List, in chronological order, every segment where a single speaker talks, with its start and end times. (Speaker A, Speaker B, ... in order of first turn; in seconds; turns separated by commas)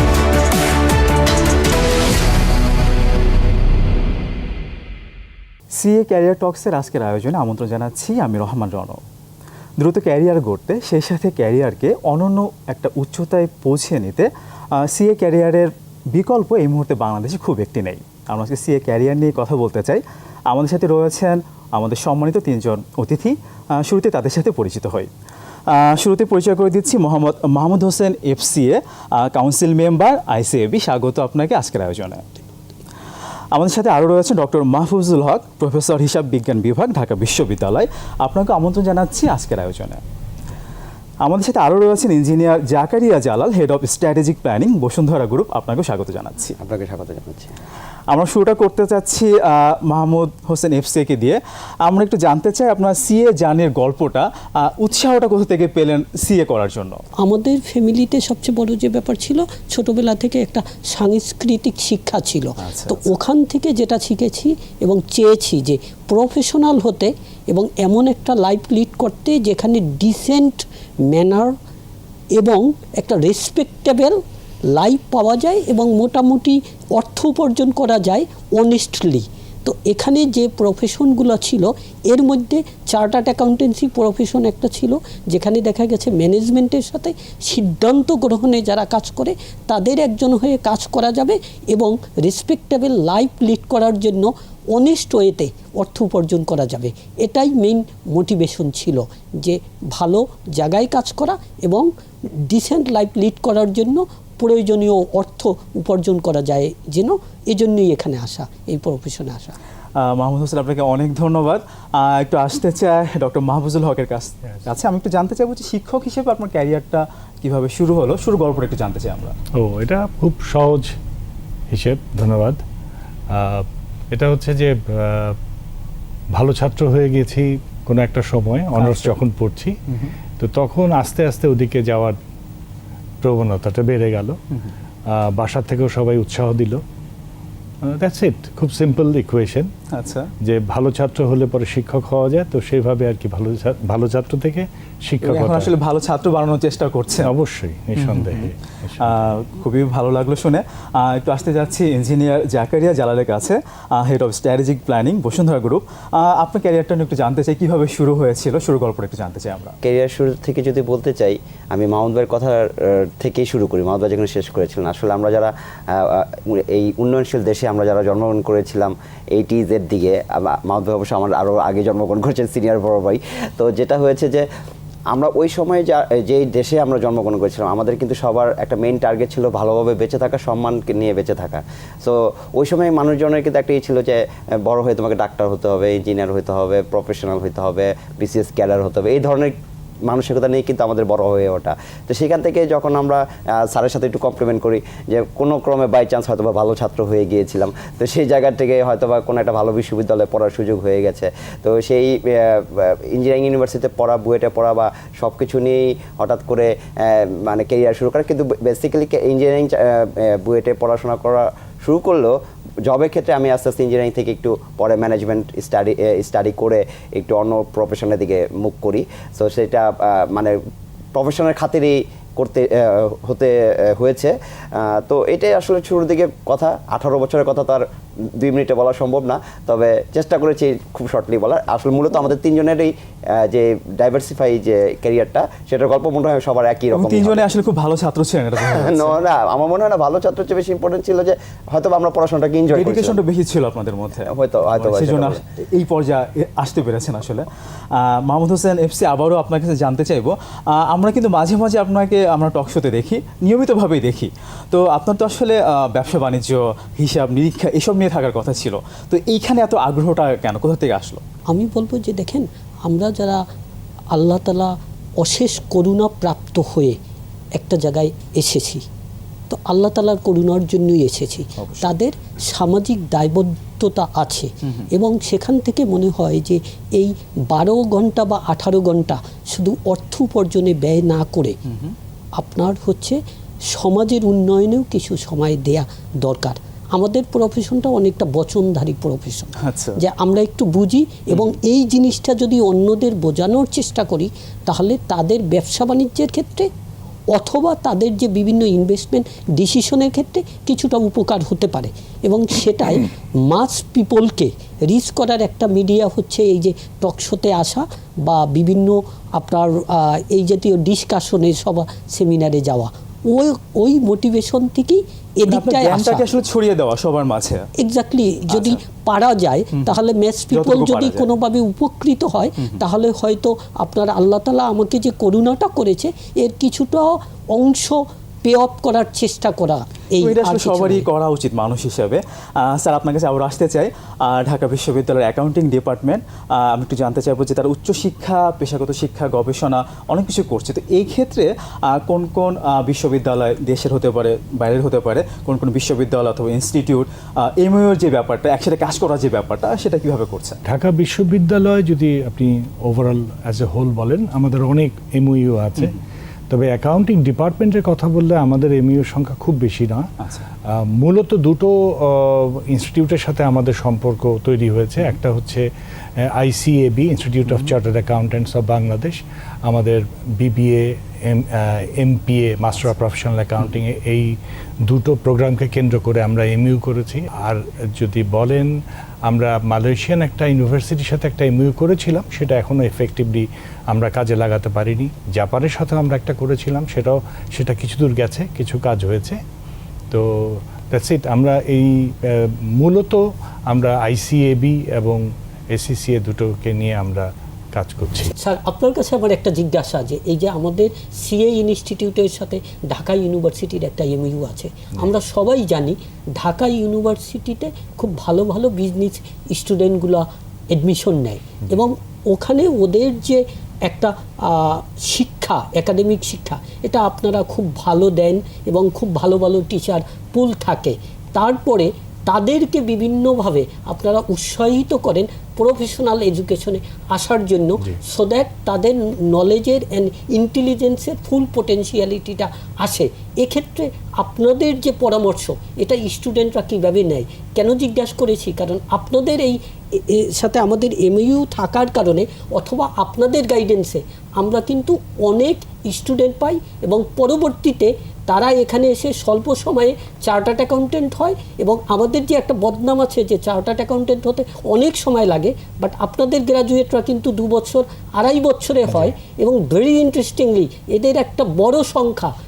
Speaker A: 5.7-9.0, Speaker A: 9.8-25.1, Speaker A: 25.7-32.2, Speaker A: 33.5-40.0, Speaker A: 41.2-46.6, Speaker B: 46.6-47.5, Speaker A: 48.1-57.0, Speaker C: 57.2-71.5, Speaker A: 62.6-63.1, Speaker C: 72.4-74.2, Speaker C: 74.7-101.9, Speaker C: 102.5-109.6, Speaker A: 110.0-119.3, Speaker D: 119.6-120.9, Speaker D: 121.7-122.6, Speaker D: 123.3-125.4, Speaker D: 126.3-129.8, Speaker A: 128.8-129.2, Speaker D: 130.3-132.2, Speaker D: 133.2-134.4, Speaker D: 135.1-136.8, Speaker D: 137.8-139.7, Speaker A: 139.9-140.3, Speaker D: 140.4-145.7, Speaker A: 145.2-147.3, Speaker D: 147.2-149.2, Speaker A: 148.0-159.8, Speaker B: 159.8-174.5, Speaker B: 175.1-220.6, Speaker B: 221.1-237.5, Speaker A: 236.9-239.2, Speaker B: 238.6-243.2, Speaker A: 242.7-261.2, Speaker B: 244.3-245.4, Speaker C: 261.5-263.4, Speaker C: 264.1-267.0, Speaker C: 267.6-268.8, Speaker C: 269.5-281.6, Speaker A: 271.6-271.9, Speaker A: 281.7-281.9, Speaker C: 282.4-283.2, Speaker C: 283.7-296.7, Speaker A: 289.6-290.0, Speaker C: 297.3-316.2, Speaker A: 315.4-317.6, Speaker C: 317.8-331.1, Speaker A: 318.5-318.8, Speaker A: 319.7-320.0, Speaker A: 320.5-321.3, Speaker A: 330.2-350.6, Speaker D: 350.7-356.0, Speaker D: 356.5-360.1, Speaker D: 360.7-365.7, Speaker D: 366.3-374.4, Speaker A: 367.5-367.8, Speaker D: 374.9-378.7, Speaker D: 379.3-389.4, Speaker D: 390.1-395.2, Speaker D: 395.7-398.3, Speaker C: 398.4-462.3